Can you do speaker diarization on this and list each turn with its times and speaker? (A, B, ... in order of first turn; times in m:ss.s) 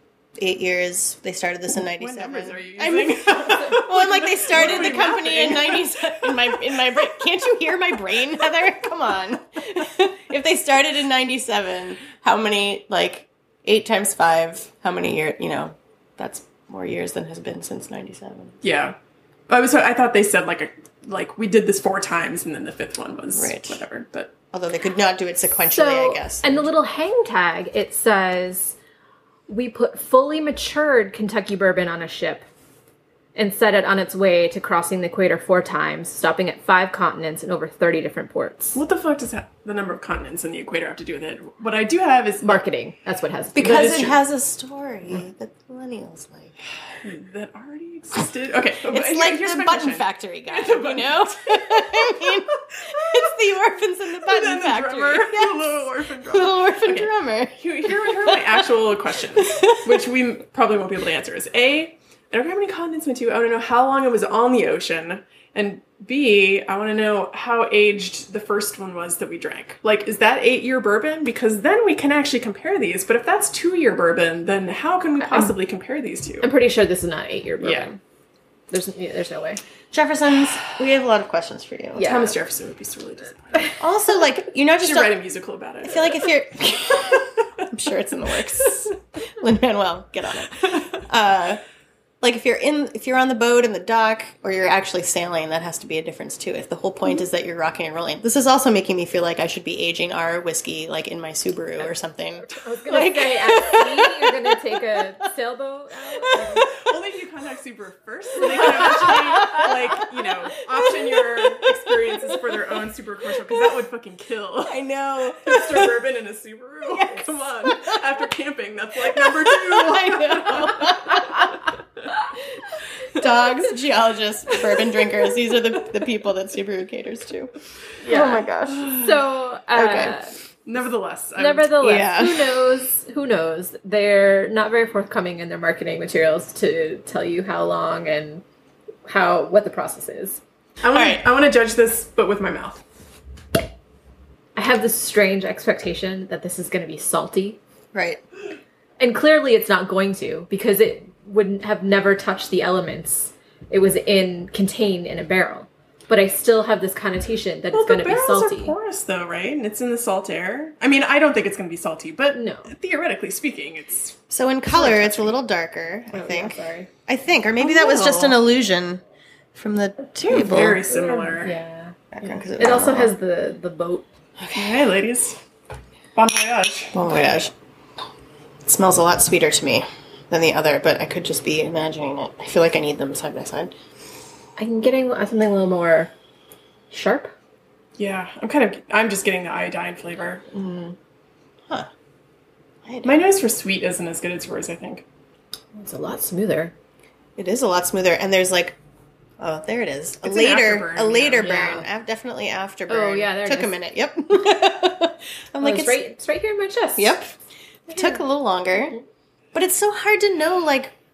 0:00.4-0:18.6 A
0:02.0-0:06.6 B
0:18.6-0:19.0 B
0:19.5-0:24.3 B
0:23.4-0:23.8 A
0:24.5-0:26.7 A
0:25.7-0:28.8 C
0:29.5-0:32.5 C
0:33.4-0:38.8 C
0:38.8-0:42.6 B
0:42.4-0:44.2 C
0:43.6-0:46.5 A
0:43.6-0:44.2 B
0:47.0-0:52.1 B
0:48.8-0:58.7 A
0:54.2-1:16.5 B
0:59.4-0:59.9 A
1:15.2-1:15.6 C
1:16.4-1:18.0 C
1:17.6-1:17.9 B
1:18.7-1:19.6 C
1:19.9-1:22.1 A
1:22.0-1:22.4 C
1:22.0-1:23.8 B
1:23.8-1:25.2 A
1:24.8-1:26.2 B
1:25.8-1:31.6 A
1:32.2-1:44.4 A
1:42.4-1:46.7 C
1:46.6-1:54.8 B
1:48.9-1:50.0 A
1:50.8-1:52.4 A
1:54.6-1:56.0 A
1:55.4-2:01.3 B
1:56.9-1:58.0 A
1:59.1-2:01.6 A
2:03.1-2:07.5 A
2:08.0-2:10.3 C
2:08.1-2:09.0 A
2:09.7-2:10.2 A
2:10.6-2:11.7 B
2:11.4-2:18.4 C
2:11.8-2:12.7 A
2:19.1-2:20.4 C
2:20.8-2:22.8 B
2:20.9-2:21.2 A
2:24.6-2:27.6 C
2:27.9-2:28.2 A
2:29.0-2:38.7 C
2:37.7-2:44.2 B
2:42.3-2:42.7 C
2:44.3-2:49.0 A
2:44.7-2:45.4 B
2:46.1-2:46.9 C
2:47.6-2:48.4 B
2:49.6-2:50.8 A
2:50.2-2:51.6 B
2:50.8-2:54.1 C
2:52.1-2:53.1 A
2:54.4-2:54.8 A
2:54.6-2:55.4 B
2:56.2-2:57.0 B
2:56.9-2:57.5 A
2:58.7-3:03.7 A
3:04.6-3:06.1 C
3:06.9-3:07.3 C
3:08.0-3:10.4 B
3:10.5-3:11.0 C
3:12.8-3:13.2 A
3:13.0-3:15.0 B
3:15.8-3:16.7 C
3:17.4-3:18.8 A
3:19.4-3:26.0 A
3:20.2-3:21.7 B
3:21.4-3:21.8 C
3:22.9-3:23.8 C
3:25.6-3:27.2 C
3:27.0-3:27.4 A
3:27.9-3:29.0 A
3:27.9-3:28.2 C
3:29.5-3:31.0 A